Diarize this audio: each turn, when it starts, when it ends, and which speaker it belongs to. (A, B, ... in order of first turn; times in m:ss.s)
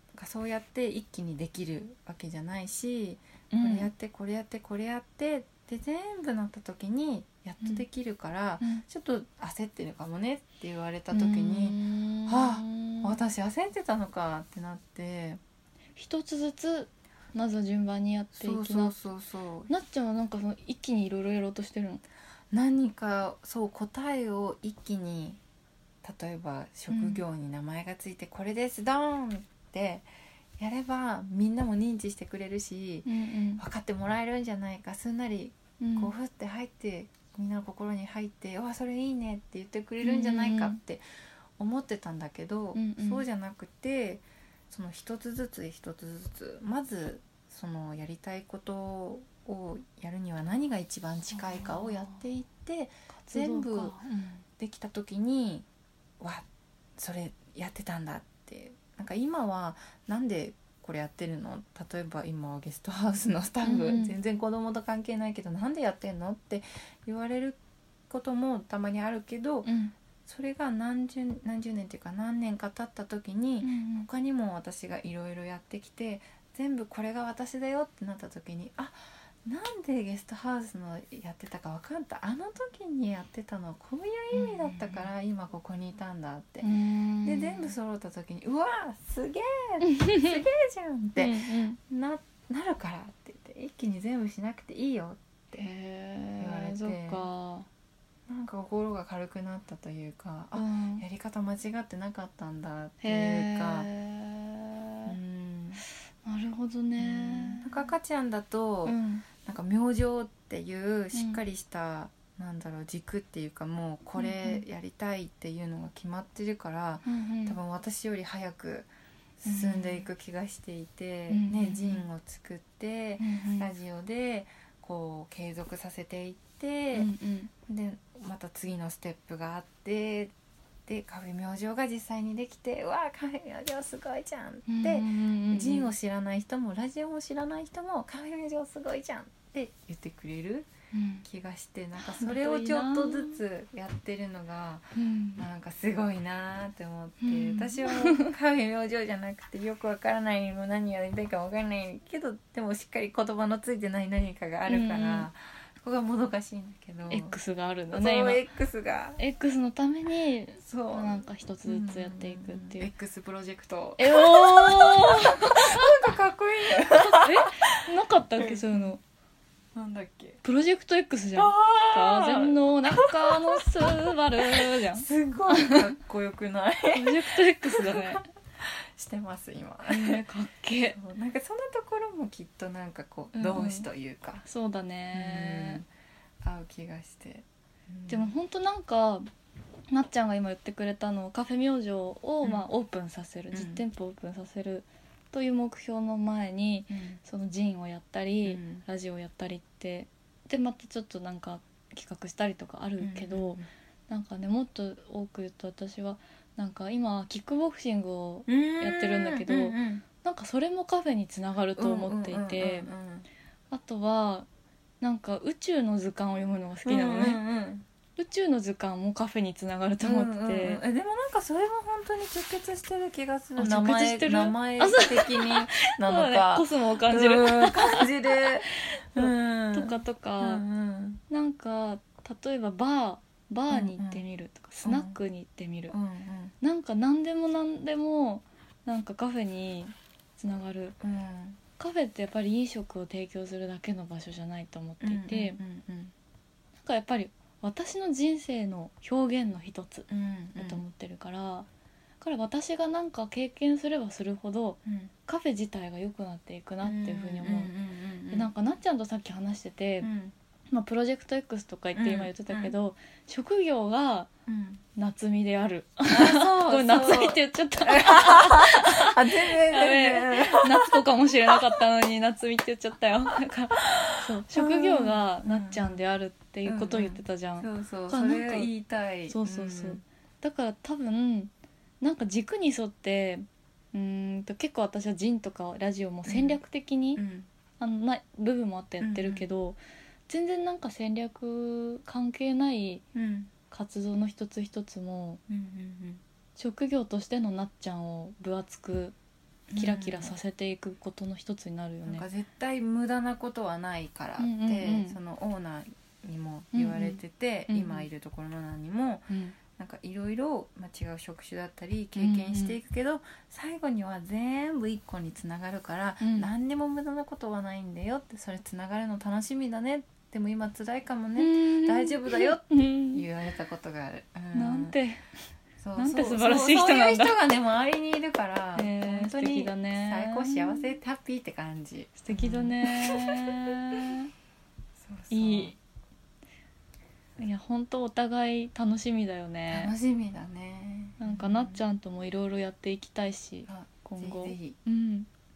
0:00.1-0:15.4 A
0:03.5-0:03.9 B
0:11.1-0:13.2 B
0:16.0-0:18.9 B
0:18.3-0:19.7 A
0:19.7-0:22.0 B
0:22.5-0:25.4 A
0:26.0-0:30.0 A
0:26.9-0:27.2 B
0:30.6-0:41.0 A
0:33.0-0:33.6 B
0:35.8-0:36.1 B
0:40.0-0:40.8 B
0:41.6-0:54.0 A
0:42.7-0:43.2 B
0:51.6-0:52.2 B
0:53.2-0:54.4 B
0:54.6-0:55.6 A
0:56.2-0:56.4 A
0:57.0-1:09.7 A
1:03.6-1:04.1 B
1:09.6-1:09.9 B
1:10.2-1:26.7 A
1:13.6-1:14.1 B
1:24.3-1:25.0 B
1:26.6-1:27.7 B
1:27.2-1:35.6 A
1:29.8-1:30.4 B
1:31.2-1:31.8 B
1:35.5-1:37.7 B
1:36.4-1:37.2 A
1:38.3-1:43.9 A
1:40.5-1:41.0 B
1:43.0-1:45.1 B
1:45.0-1:45.8 A
1:46.2-1:47.7 B
1:47.0-1:58.9 A
1:48.8-1:49.2 B
1:51.1-1:51.4 B
1:54.2-1:54.6 B
1:57.0-1:57.6 B
1:59.4-2:07.1 A
1:59.4-2:00.1 B
2:01.3-2:02.0 B
2:03.2-2:03.7 B
2:06.9-2:07.5 B
2:07.7-2:10.3 A
2:10.8-2:20.7 A
2:14.7-2:15.9 B
2:20.9-2:21.2 B
2:21.2-2:37.4 A
2:22.0-2:23.4 B
2:25.0-2:25.4 B
2:27.2-2:28.3 B
2:34.7-2:35.3 B
2:37.1-2:38.4 B
2:37.9-2:39.2 A
2:39.2-2:42.9 B
2:40.6-2:47.6 A
2:44.0-2:46.1 B
2:46.8-2:49.0 B
2:48.4-2:48.9 A
2:49.7-2:50.4 A
2:50.4-2:55.8 B
2:51.4-2:53.9 A
2:54.6-3:00.2 A
2:56.9-2:58.2 B
2:59.9-3:01.0 B
3:00.9-3:04.4 A
3:03.3-3:03.9 B
3:04.4-3:05.8 B
3:05.1-3:05.9 A
3:06.4-3:08.3 A
3:08.1-3:09.3 B
3:09.9-3:32.9 B
3:13.5-3:13.8 A
3:16.9-3:17.2 A
3:18.4-3:18.8 A
3:23.0-3:23.7 A
3:28.5-3:30.0 A
3:31.8-3:33.3 A
3:33.7-3:34.5 B
3:35.0-3:37.4 B
3:36.8-3:37.8 A
3:38.2-3:40.8 B
3:40.0-3:51.2 A
3:43.6-3:50.6 B
3:51.3-3:55.9 B
3:53.7-3:54.2 A
3:54.8-3:55.2 A
3:55.9-3:56.5 A
3:56.6-4:01.0 B
4:01.0-4:01.6 A
4:01.8-4:05.6 B
4:05.0-4:06.1 A
4:06.8-4:11.7 B
4:10.1-4:10.8 A
4:12.2-4:17.7 B
4:14.8-4:15.1 A
4:16.8-4:18.5 A
4:18.3-4:20.1 B
4:20.0-4:20.3 A
4:20.7-4:24.3 B
4:21.9-4:22.7 A
4:24.5-4:24.8 A
4:24.9-4:38.7 B
4:26.1-4:31.6 A
4:33.8-4:36.0 A
4:36.6-4:40.0 A
4:39.3-4:47.2 B
4:46.2-4:46.6 A
4:47.2-4:47.5 A
4:47.8-4:53.0 B
4:49.0-4:49.4 A
4:53.1-4:53.5 A
4:53.7-4:55.4 B
4:55.5-4:56.2 A
4:56.6-4:59.2 B
4:59.7-5:00.3 A
4:59.7-5:02.2 B
5:02.0-5:25.0 A
5:04.4-5:05.2 B
5:06.7-5:08.1 B
5:09.3-5:09.6 B
5:12.2-5:12.8 B
5:16.2-5:16.5 B
5:21.4-5:23.2 B
5:24.5-5:25.2 B
5:25.8-5:33.5 A
5:26.0-5:27.4 B
5:28.7-5:30.9 B
5:32.2-5:34.3 B
5:35.0-5:35.8 A
5:35.3-5:35.7 B
5:37.4-5:39.9 B
5:39.7-5:41.8 A
5:41.2-5:45.3 B
5:43.7-5:44.8 A